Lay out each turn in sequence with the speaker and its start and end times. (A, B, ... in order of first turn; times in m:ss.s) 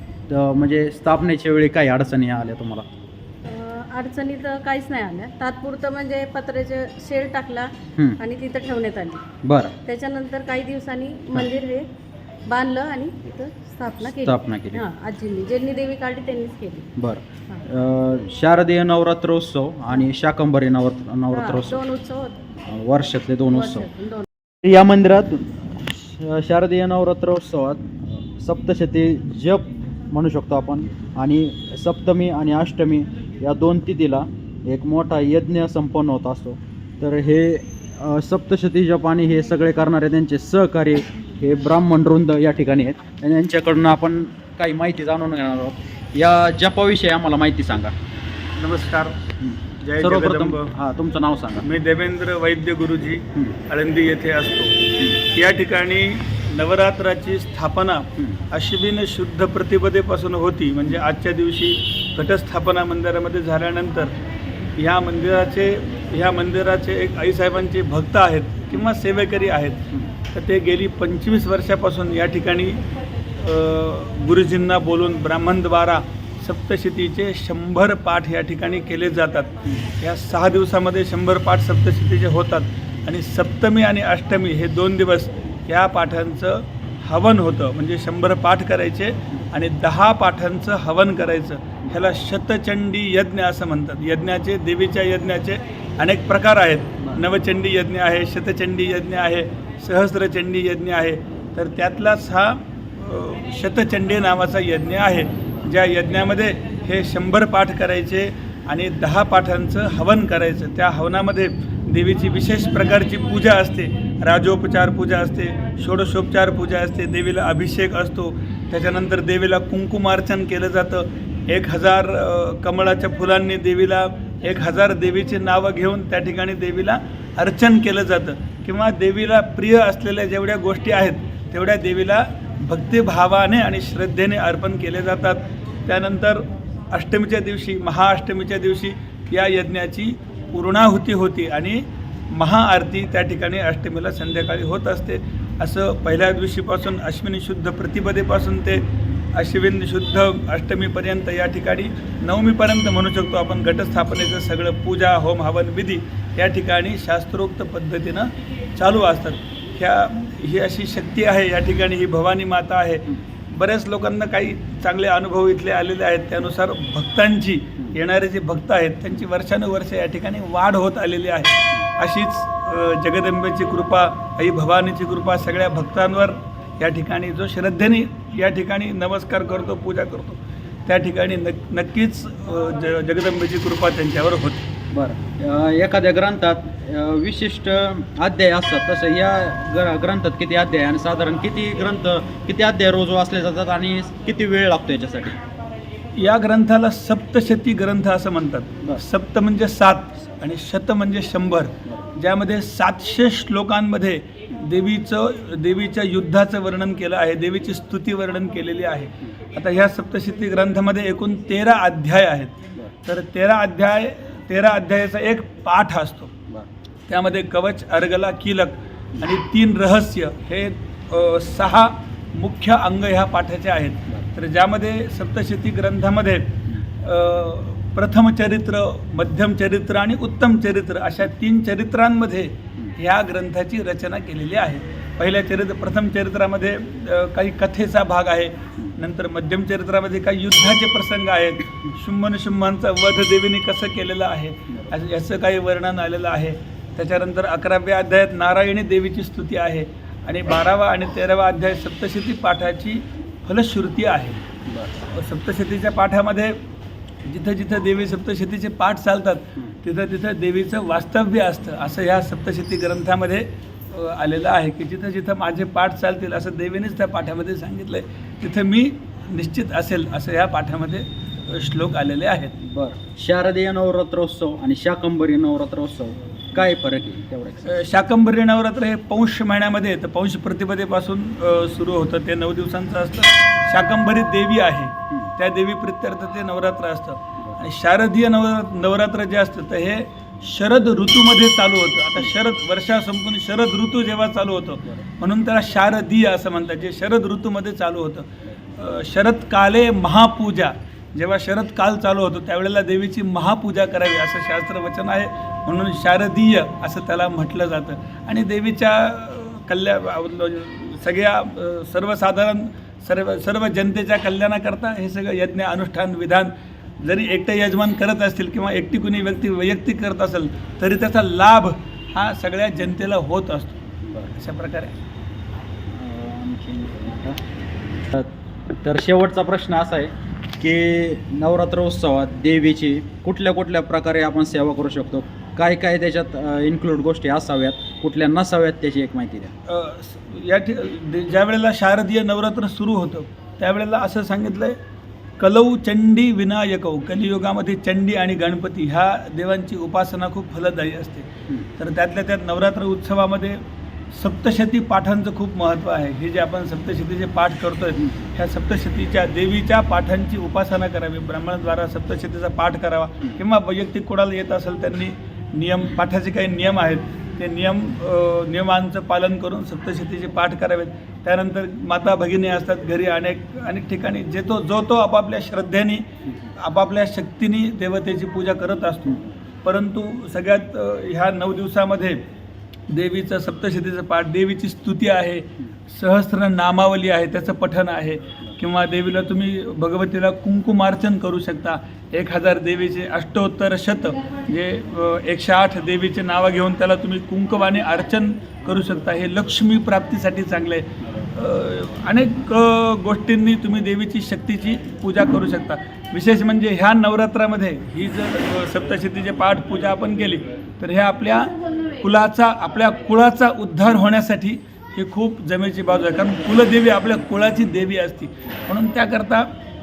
0:00.3-0:02.9 A
0:03.5-0:09.2 B
0:09.4-0:09.8 A
0:09.8-0:11.9 B
0:12.5-0:17.0 B
0:14.0-0:14.8 A
0:17.0-0:21.9 A
0:21.3-0:22.5 B
0:22.7-0:23.9 A
0:23.5-0:24.3 B
0:24.6-0:47.9 A
0:48.6-0:49.2 C
0:49.4-0:51.6 A
0:49.8-0:50.7 C
0:51.6-1:04.1 C
1:04.8-1:12.8 C
1:13.4-2:16.4 C
2:16.9-2:21.8 C
2:22.3-3:04.7 C
3:05.0-3:15.4 A
3:16.2-3:36.4 C
3:37.1-4:14.4 C
4:15.1-4:16.6 C
4:17.3-4:32.6 C
4:32.6-4:37.7 A
4:37.6-5:16.5 C
5:17.0-5:23.8 C
5:24.4-5:25.0 C
5:25.9-5:27.4 A
5:28.8-5:39.5 A
5:39.7-5:44.8 C
5:45.4-5:53.6 C
5:54.2-6:16.0 C
6:16.6-6:22.2 C
6:22.9-6:59.5 C